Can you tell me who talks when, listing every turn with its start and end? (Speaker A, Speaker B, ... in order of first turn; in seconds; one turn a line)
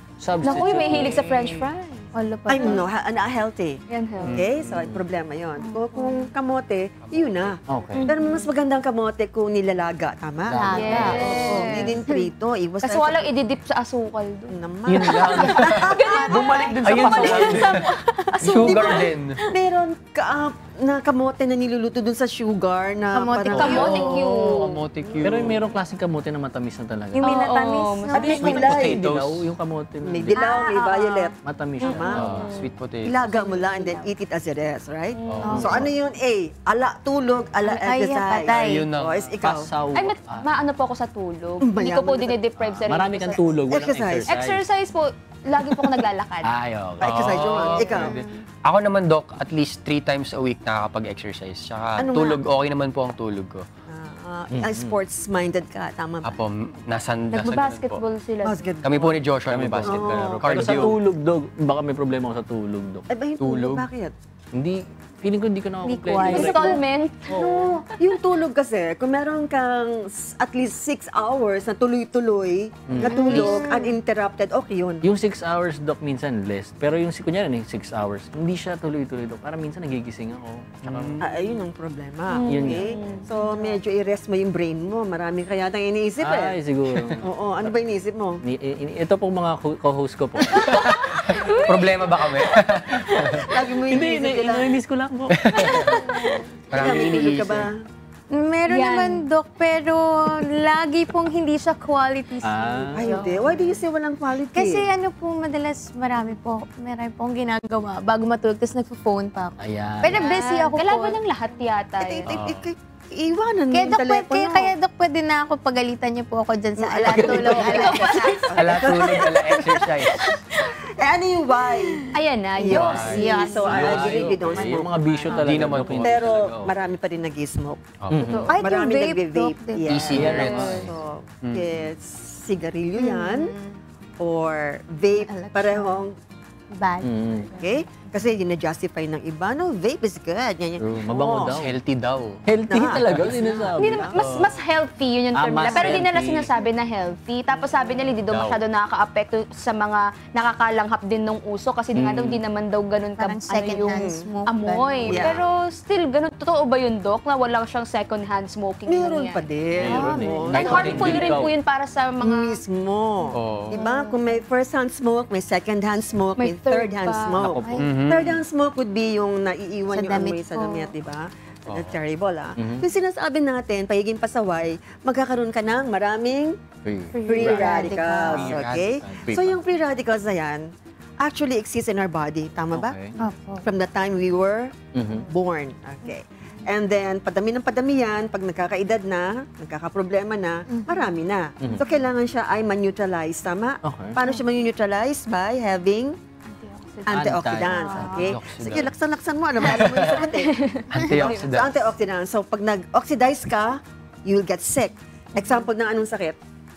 Speaker A: 0.2-1.7
Speaker B: 0.4-2.8
Speaker C: 0.7-1.0
Speaker D: 2.1-2.9
Speaker C: 2.5-13.3
Speaker B: 3.9-4.4
Speaker E: 4.2-4.5
Speaker A: 4.6-5.0
Speaker B: 5.6-6.3
Speaker E: 7.0-7.6
Speaker A: 7.7-8.1
Speaker B: 7.9-8.5
Speaker D: 10.5-12.0
Speaker B: 10.7-12.0
Speaker B: 12.8-19.1
Speaker C: 14.5-17.5
Speaker E: 14.9-17.9
Speaker A: 16.7-17.7
Speaker E: 18.4-19.4
Speaker C: 18.4-24.2
Speaker D: 23.1-24.2
Speaker B: 23.5-24.7
Speaker E: 23.5-25.6
Speaker A: 25.2-27.3
Speaker B: 27.2-28.7
Speaker D: 27.2-28.4
Speaker C: 28.1-29.0
Speaker A: 28.1-30.4
Speaker E: 28.3-29.5
Speaker C: 30.0-32.3
Speaker D: 30.3-31.3
Speaker A: 31.4-32.5
Speaker B: 31.8-32.7
Speaker E: 32.1-33.2
Speaker C: 33.0-39.7
Speaker D: 33.2-34.1
Speaker B: 35.1-35.5
Speaker E: 35.3-35.9
Speaker D: 35.4-35.8
Speaker A: 35.5-35.9
Speaker D: 37.6-38.9
Speaker E: 38.6-39.4
Speaker A: 39.4-40.5
Speaker B: 39.9-43.5
Speaker C: 41.6-42.4
Speaker A: 42.6-44.6
Speaker C: 43.7-44.3
Speaker B: 44.3-46.5
Speaker C: 45.6-46.0
Speaker A: 46.4-47.3
Speaker C: 47.0-48.2
Speaker E: 47.0-53.6
Speaker D: 47.9-48.3
Speaker C: 52.0-52.4
Speaker C: 53.9-56.4
Speaker A: 54.5-55.0
Speaker E: 56.2-58.0
Speaker B: 57.3-58.7
Speaker C: 58.4-59.1
Speaker E: 58.8-61.0
Speaker A: 59.5-63.0
Speaker C: 59.8-60.9
Speaker C: 63.1-64.1
Speaker E: 63.4-63.9
Speaker A: 64.5-67.5
Speaker D: 65.8-66.8
Speaker B: 66.2-67.7
Speaker C: 67.3-75.0
Speaker A: 72.9-73.6
Speaker D: 73.0-74.0
Speaker B: 73.1-73.5
Speaker A: 75.0-81.2
Speaker E: 80.8-81.3
Speaker C: 81.2-86.6
Speaker B: 82.3-83.8
Speaker A: 82.5-82.9
Speaker A: 86.2-87.7
Speaker C: 87.2-88.4
Speaker A: 88.4-90.8
Speaker E: 90.5-93.5
Speaker B: 90.6-92.3
Speaker A: 93.0-93.3
Speaker C: 93.5-94.8
Speaker A: 93.9-95.9
Speaker E: 95.4-96.1
Speaker B: 95.7-96.4
Speaker D: 96.0-97.2
Speaker E: 96.7-97.7
Speaker C: 96.7-97.8
Speaker D: 98.3-103.8
Speaker B: 98.7-99.2
Speaker A: 102.4-103.1
Speaker C: 102.9-104.9
Speaker D: 104.5-111.2
Speaker A: 109.6-110.3
Speaker B: 110.1-112.3
Speaker C: 112.0-114.7
Speaker E: 112.3-112.7
Speaker D: 113.7-118.5
Speaker C: 116.8-120.0
Speaker A: 117.1-117.4
Speaker B: 117.4-118.5
Speaker E: 118.5-120.2
Speaker B: 120.2-120.7
Speaker C: 121.0-122.0
Speaker B: 122.1-124.0
Speaker C: 122.6-127.8
Speaker E: 122.7-124.4
Speaker D: 123.0-124.9
Speaker A: 123.6-126.7
Speaker E: 125.2-126.3
Speaker E: 128.0-128.5
Speaker A: 128.1-128.5
Speaker B: 128.3-128.5
Speaker D: 128.5-130.2
Speaker C: 128.5-133.5
Speaker E: 129.8-131.9
Speaker A: 130.1-130.9
Speaker B: 130.2-130.8
Speaker D: 132.9-133.8
Speaker C: 134.2-136.1
Speaker D: 135.1-136.1
Speaker D: 136.7-138.2
Speaker A: 137.0-137.5
Speaker C: 137.6-141.6
Speaker A: 140.8-141.8
Speaker E: 141.5-142.4
Speaker A: 142.4-144.5
Speaker C: 142.7-144.2
Speaker E: 143.0-143.5
Speaker D: 143.4-143.7
Speaker B: 143.8-159.4
Speaker A: 145.3-146.5
Speaker E: 148.2-148.6
Speaker A: 151.9-152.4
Speaker D: 153.2-155.4
Speaker C: 153.7-154.2
Speaker C: 155.0-155.4
Speaker C: 158.9-161.4
Speaker E: 159.8-161.0
Speaker A: 159.8-161.5
Speaker B: 160.0-162.6
Speaker C: 162.2-176.5
Speaker E: 163.3-163.8
Speaker B: 163.7-164.1
Speaker B: 166.3-167.4
Speaker A: 167.4-167.8
Speaker D: 167.6-167.9
Speaker E: 167.8-168.4
Speaker D: 169.9-170.9
Speaker E: 171.7-171.9
Speaker A: 172.6-172.8
Speaker A: 176.8-177.8
Speaker B: 177.1-178.1
Speaker C: 177.2-180.7
Speaker D: 177.3-178.6
Speaker E: 178.3-179.0
Speaker A: 178.7-179.6
Speaker C: 181.2-182.9
Speaker A: 182.7-183.1
Speaker D: 183.2-183.7
Speaker C: 183.6-196.1
Speaker A: 184.9-185.3
Speaker D: 190.7-191.2
Speaker A: 193.8-194.2
Speaker B: 196.8-197.1
Speaker C: 197.0-200.5
Speaker A: 197.1-198.2
Speaker B: 197.7-198.3
Speaker D: 197.7-198.2
Speaker E: 198.0-198.9
Speaker E: 199.6-200.3
Speaker B: 200.3-201.4
Speaker E: 200.9-201.8
Speaker D: 200.9-201.3
Speaker C: 201.2-206.4
Speaker B: 205.3-205.7